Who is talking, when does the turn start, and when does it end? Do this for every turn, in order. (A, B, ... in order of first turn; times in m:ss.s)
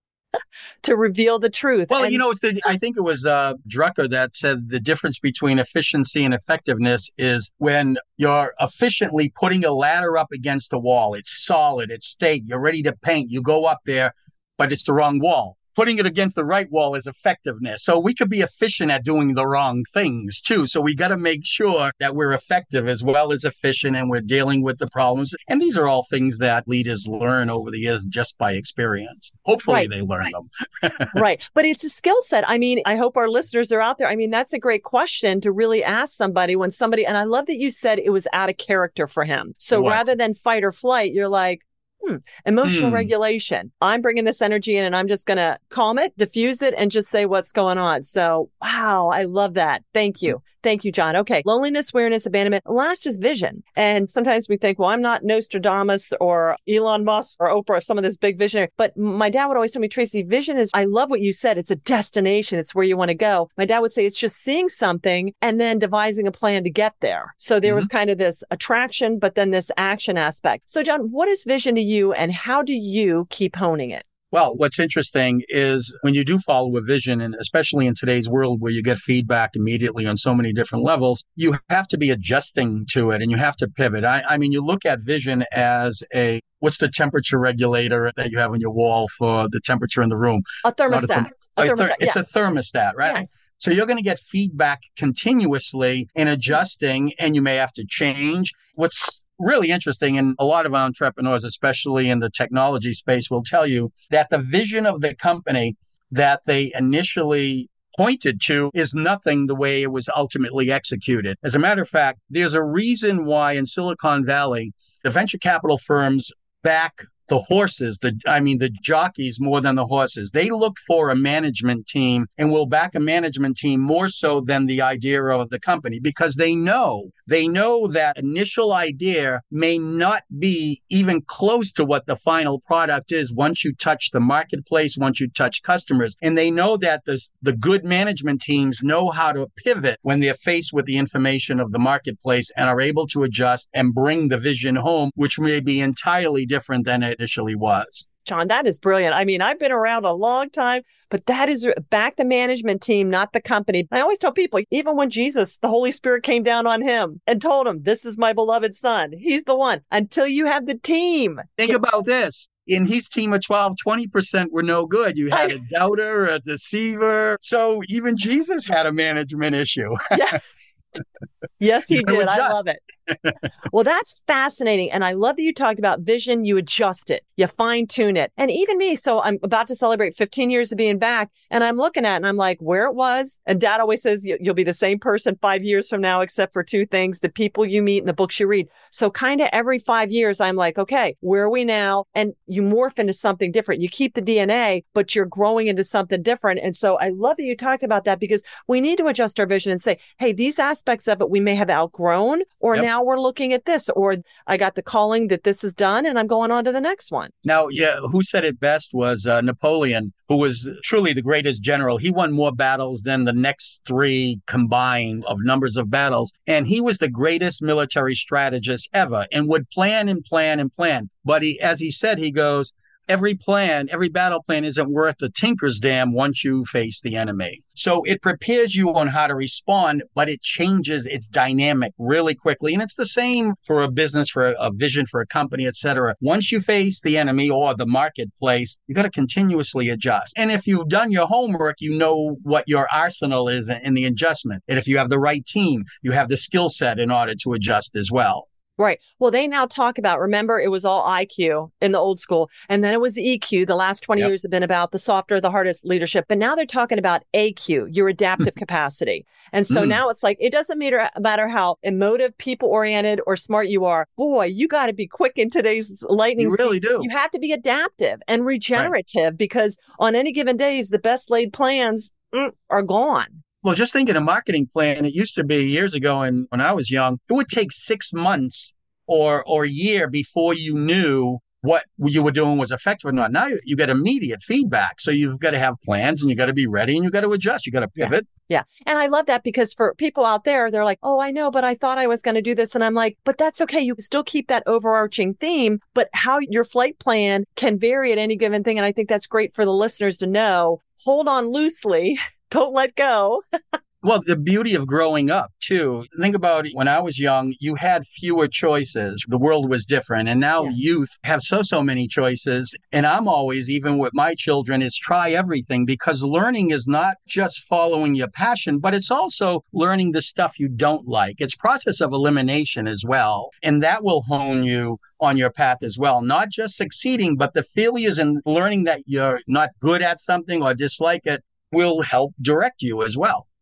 0:00.8-0:02.2 A
0:01.9-0:31.1 B
0:31.1-1:14.0 A
0:39.7-0:40.1 B
0:42.6-0:43.1 B
1:14.3-2:28.1 B
1:30.6-1:32.2 A
2:28.3-2:41.8 A
2:41.6-2:50.4 B
2:45.3-2:45.6 A
2:50.1-2:50.4 A
2:51.6-2:52.8 A
2:51.9-2:53.3 B
2:53.7-3:27.3 A
3:27.4-4:08.5 B
4:08.8-4:33.4 A
4:19.7-4:20.0 B
4:26.4-4:27.1 B
4:33.6-4:48.3 B
4:48.0-5:03.4 A
5:04.0-5:33.4 B